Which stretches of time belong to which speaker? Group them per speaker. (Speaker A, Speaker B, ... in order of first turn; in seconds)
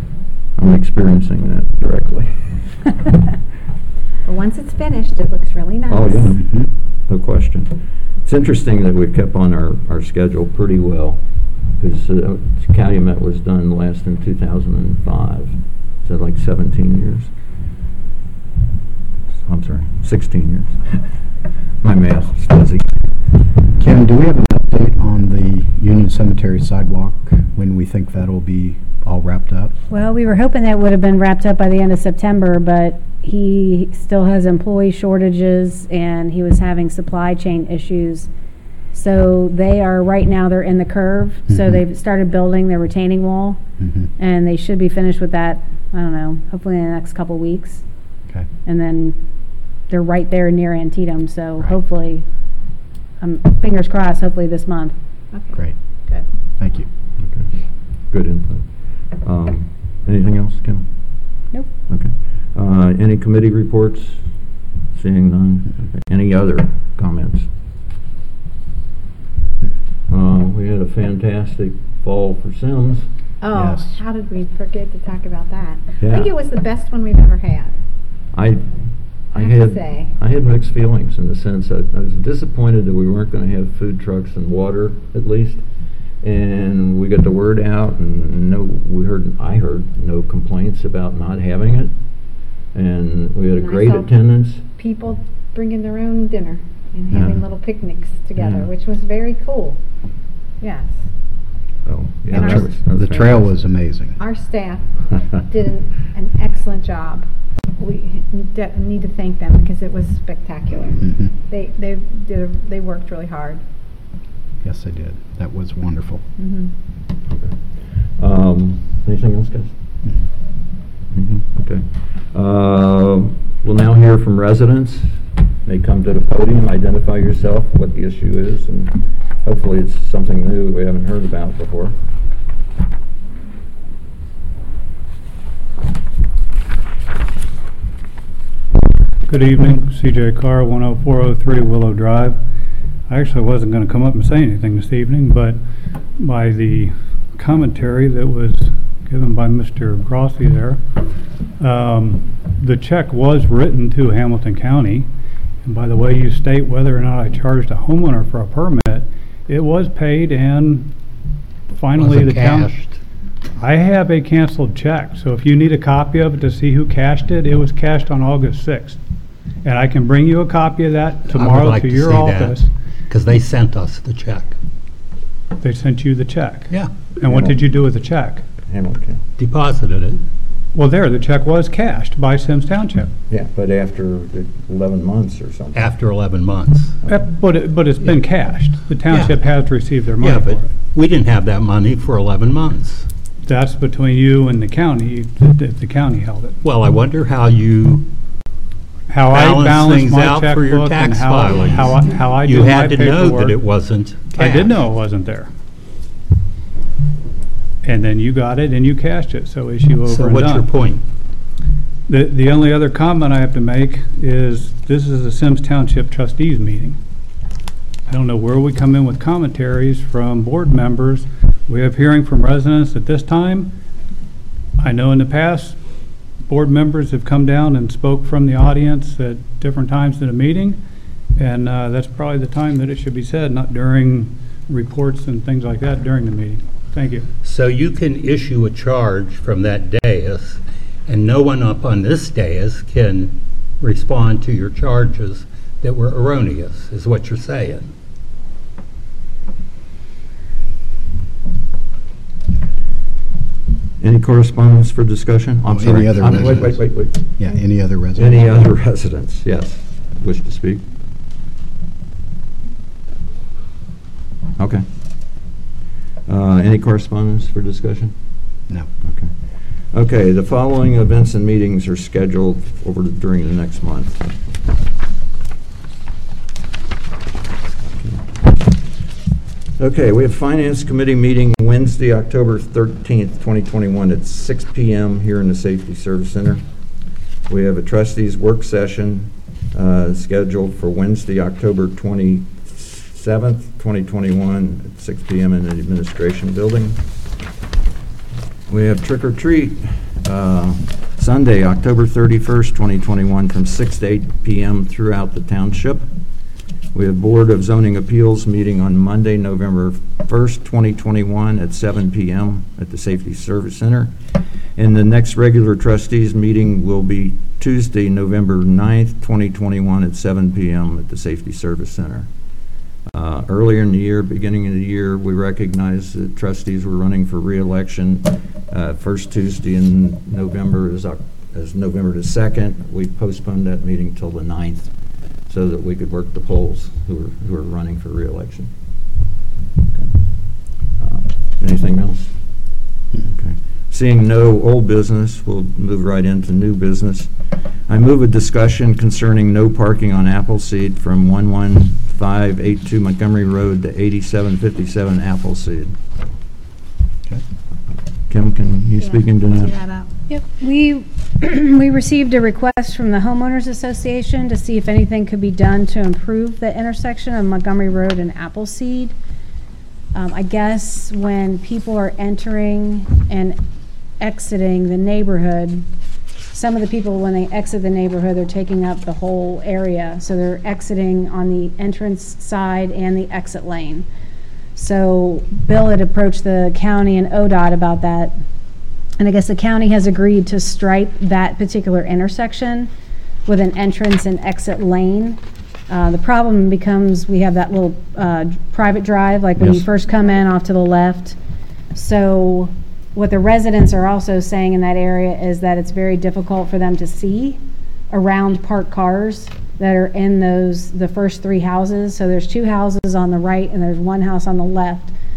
Speaker A: 0.6-2.6, 5.9-11.2, 11.7-17.3, 19.4-20.8, 21.8-22.9, 57.2-57.5, 58.1-64.2, 64.9-67.5, 70.1-73.1, 76.0-76.3, 78.3-78.6, 79.3-85.6, 86.2-91.9, 92.7-94.6, 97.1-97.4, 98.4-98.7, 101.8-103.5, 117.3-119.7, 121.1-131.9, 177.2-177.6, 178.6-179.2, 183.3-185.9, 254.0-257.3, 258.1-260.9, 264.6-265.5, 266.2-268.2, 269.0-274.3, 277.9-278.4, 279.8-286.6, 287.5-297.0, 298.7-306.1, 306.9-314.1, 314.8-322.3, 323.1-338.7, 339.9-342.7, 343.2-347.3, 347.9-355.9, 358.3-359.7, 399.6-399.8
Speaker B: 4.2-6.4, 55.3-56.2, 73.4-77.8, 79.4-80.1, 93.5-94.1, 94.7-99.8, 100.6-101.0, 102.3-102.7, 104.2-104.9, 105.5-113.6, 116.4-116.7, 359.0-360.1
Speaker C: 6.3-6.7, 23.8-29.7, 41.5-41.8, 43.8-44.1, 56.6-56.9, 73.5-74.0, 102.3-104.2, 111.0-111.3, 114.6-116.2, 255.7-258.5
Speaker D: 29.9-38.3, 38.9-43.6, 44.2-47.8, 48.6-49.2, 49.9-52.2, 53.2-54.9, 360.3-369.1, 370.1-373.6, 374.2-375.9, 376.5-384.1, 384.7-388.4, 389.2-392.9, 393.4-401.4, 401.9-407.6, 408.1-415.1
Speaker E: 139.2-142.4, 143.1-145.6, 146.1-150.8, 151.6-155.1, 155.6-160.9, 161.7-162.9, 163.6-169.0, 169.6-172.7, 175.6-178.4, 180.7-183.1, 187.1-190.7, 193.4-196.6, 199.1-203.6, 204.3-205.5, 207.8-210.7, 212.1-217.0, 218.1-223.7, 224.8-230.8, 231.3-237.3
Speaker F: 161.9-163.0, 171.3-174.6, 176.7-176.9, 179.4-180.2, 185.7-187.0, 188.0-193.1, 196.6-198.1, 199.3-204.8, 210.1-211.0, 237.4-247.9